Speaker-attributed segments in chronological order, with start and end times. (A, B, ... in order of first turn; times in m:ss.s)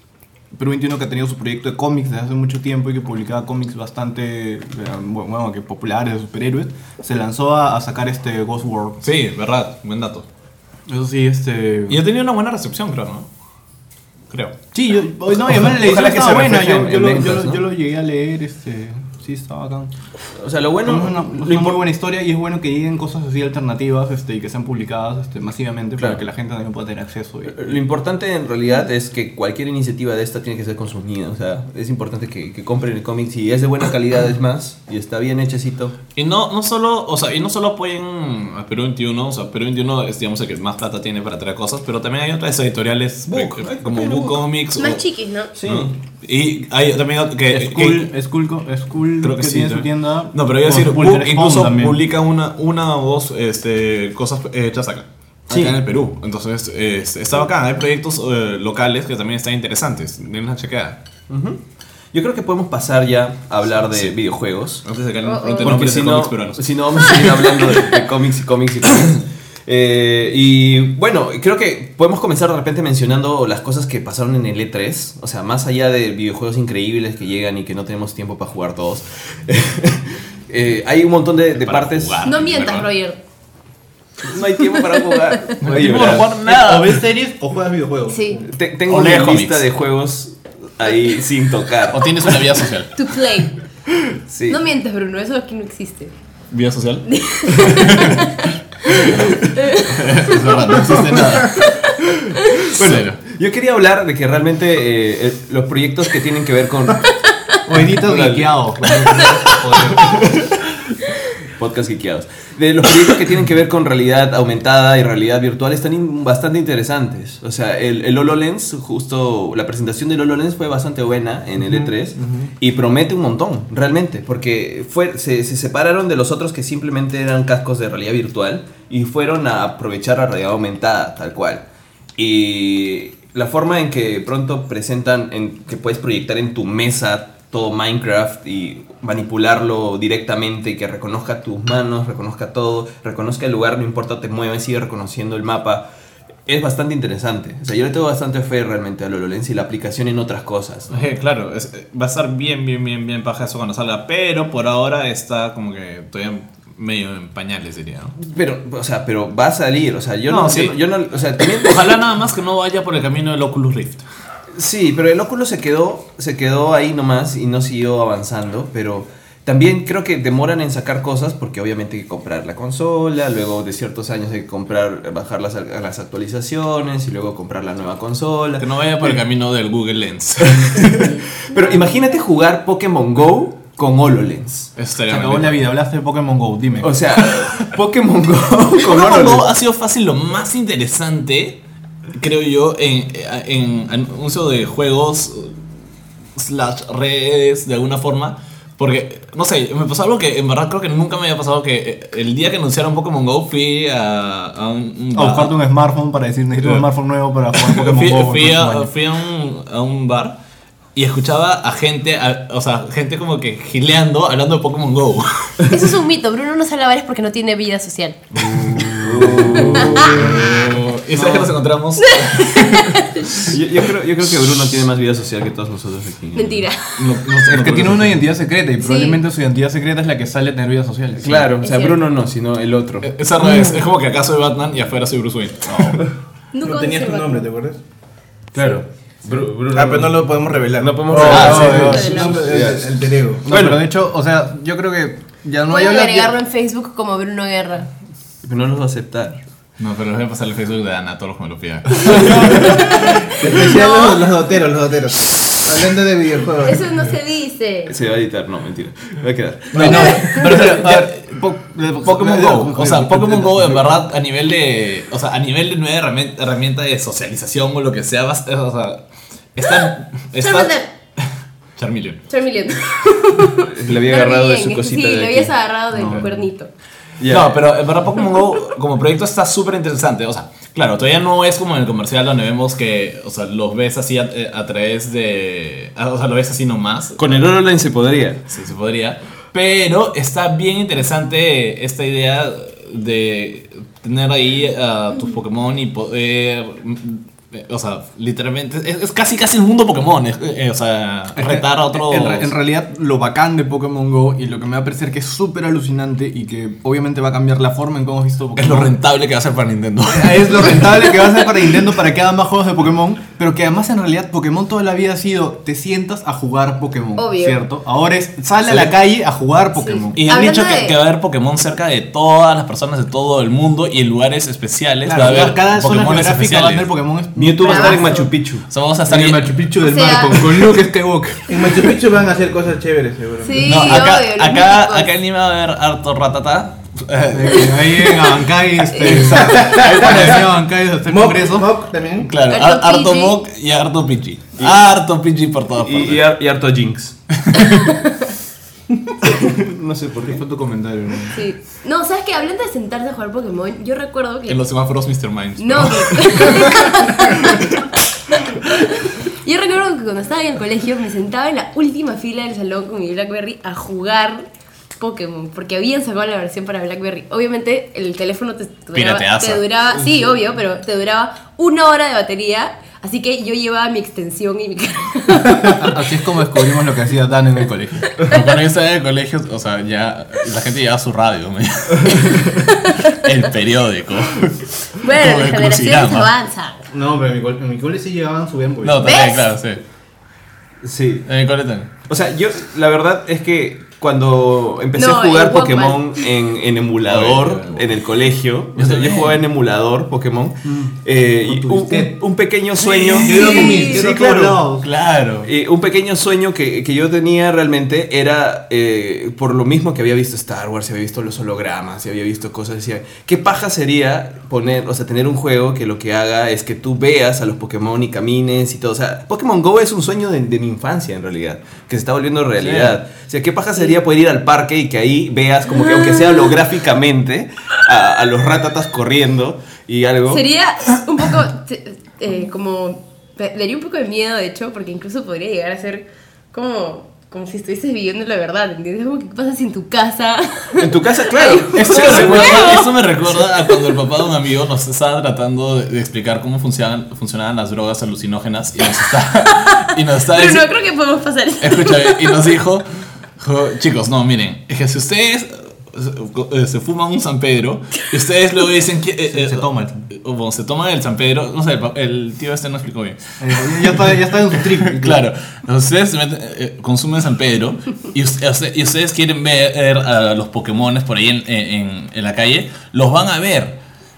0:00.5-0:09.1 A
0:09.0-0:10.3 B
0:10.9-0:12.0 A
0:11.9-0:13.3 B
0:14.3-0:14.6 B
0:14.7-0:19.9 A
0:15.5-0:17.7 C
0:20.4-0:21.8 C
0:20.8-0:27.8 A
0:27.5-0:36.0 C
0:36.2-0:45.0 B
0:43.3-0:44.5 C
0:44.8-0:45.5 D
0:45.6-0:45.9 C
0:45.6-0:48.1 B
0:47.5-0:52.0 A
0:49.2-1:01.0 B
0:55.5-0:55.8 C
1:01.3-1:01.6 C
1:02.1-1:04.8 C
1:04.8-1:07.2 B
1:05.2-1:05.8 D
1:05.6-1:22.2 C
1:07.2-1:07.9 D
1:21.6-1:22.9 B
1:22.2-1:23.2 D
1:24.2-1:26.3 C
1:24.8-1:25.6 D
1:25.6-1:27.0 B
1:25.7-1:28.4 A
1:28.1-1:28.5 D
1:28.4-1:32.3 C
1:28.9-1:29.6 B
1:31.9-1:32.9 B
1:33.0-1:33.6 D
1:34.3-1:34.6 C
1:34.5-1:36.1 D
1:36.5-1:37.1 B
1:37.0-1:41.8 D
1:37.6-1:41.9 B
1:42.5-1:42.7 D
1:42.7-1:43.2 B
1:42.7-1:47.1 C
1:47.6-1:50.2 A
1:47.9-1:50.4 C
1:51.6-2:11.6 C
2:01.6-2:02.5 E
2:12.2-2:25.9 C
2:26.5-2:31.1 C
2:30.9-2:38.2 B
2:38.2-2:42.0 C
2:40.3-2:40.8 B
2:41.4-2:44.0 B
2:44.6-2:59.2 C
2:58.6-3:01.1 B
3:00.4-3:04.8 C
3:00.8-3:02.0 D
3:04.8-3:05.7 B
3:05.1-3:07.0 A
3:06.8-3:09.5 C
3:08.8-3:11.6 B
3:12.1-3:15.6 B
3:16.4-3:25.6 B
3:25.2-3:28.9 A
3:26.6-3:26.9 B
3:27.6-3:30.4 B
3:31.0-3:35.6 B
3:35.7-3:38.2 D
3:38.4-3:40.8 A
3:38.9-3:40.6 C
3:39.3-3:43.6 B
3:39.6-3:40.2 D
3:41.1-3:41.6 C
3:42.0-3:43.5 D
3:43.4-3:46.7 C
3:46.4-3:47.2 D
3:47.0-3:48.2 B
3:47.5-3:51.5 A
3:48.8-3:49.2 D
3:51.2-3:53.1 C
3:51.6-3:52.0 D
3:53.0-3:56.1 B
3:56.5-3:57.4 D
3:56.6-3:57.8 E
3:58.5-4:02.8 C
3:59.7-4:03.4 E
4:01.1-4:06.4 A
4:01.2-4:02.0 B
4:01.3-4:02.5 D
4:03.5-4:03.8 C
4:05.7-4:07.9 D
4:08.4-4:09.4 C
4:09.8-4:12.8 B
4:12.0-4:14.2 D
4:12.1-4:12.5 A
4:13.3-4:16.9 E
4:16.6-4:18.0 D
4:17.9-4:20.8 C
4:19.7-4:21.2 B
4:19.7-4:23.9 A
4:19.9-4:20.4 D
4:22.0-4:29.0 B
4:29.6-4:30.8 B
4:30.4-4:30.9 D
4:31.8-4:32.2 B
4:32.3-4:36.7 D
4:33.6-4:36.2 C
4:36.0-4:36.3 A
4:37.2-4:37.6 C
4:37.3-4:47.4 B
4:47.2-4:48.4 C
4:48.5-5:02.5 B
5:01.3-5:09.0 A
5:08.6-5:11.3 B
5:10.1-5:20.4 A
5:17.2-5:17.6 D
5:18.7-5:19.0 B
5:19.8-5:21.0 D
5:20.2-5:26.9 B
5:25.0-5:28.1 A
5:27.4-5:28.7 C
5:27.6-5:28.3 D
5:28.7-5:29.5 B
5:29.1-5:31.9 A
5:29.8-5:30.7 D
5:31.5-5:33.8 E
5:33.4-5:35.1 D
5:33.6-5:40.5 B
5:37.3-5:41.7 A
5:39.0-5:39.6 D
5:39.4-5:40.3 E
5:41.1-5:42.3 E
5:42.3-5:46.2 B
5:42.5-5:43.4 D
5:44.6-5:44.9 C
5:45.8-5:47.2 C
5:47.5-5:47.8 B
5:47.6-5:48.3 D
5:49.3-5:50.4 C
5:50.3-5:51.4 A
5:51.3-5:54.6 D
5:54.5-5:56.8 B
5:55.6-5:57.8 D
5:58.4-6:04.5 D
6:05.0-6:16.1 D
6:08.9-6:09.6 B
6:15.6-6:18.1 A
6:18.3-6:26.3 B
6:22.4-6:23.1 D
6:25.0-6:26.9 D
6:26.9-6:29.0 A
6:28.8-6:29.8 B
6:29.0-6:29.5 D
6:30.8-6:31.3 C
6:31.3-6:31.9 B
6:32.1-6:44.7 C
6:35.0-6:36.3 D
6:37.1-6:37.8 B
6:38.8-6:39.4 B
6:40.6-6:42.2 A
6:42.8-6:43.7 B
6:43.2-6:44.9 A
6:43.3-6:44.0 D
6:44.8-6:45.5 B
6:45.4-7:10.4 C
7:02.6-7:02.9 B
7:05.7-7:06.6 D
7:10.3-7:24.0 D
7:20.8-7:22.9 C
7:21.7-7:30.7 B
7:21.8-7:22.4 A
7:29.5-7:32.6 D
7:31.6-7:32.9 B
7:33.4-7:44.1 B
7:39.3-7:40.0 A
7:43.4-7:45.3 A
7:44.7-7:53.8 B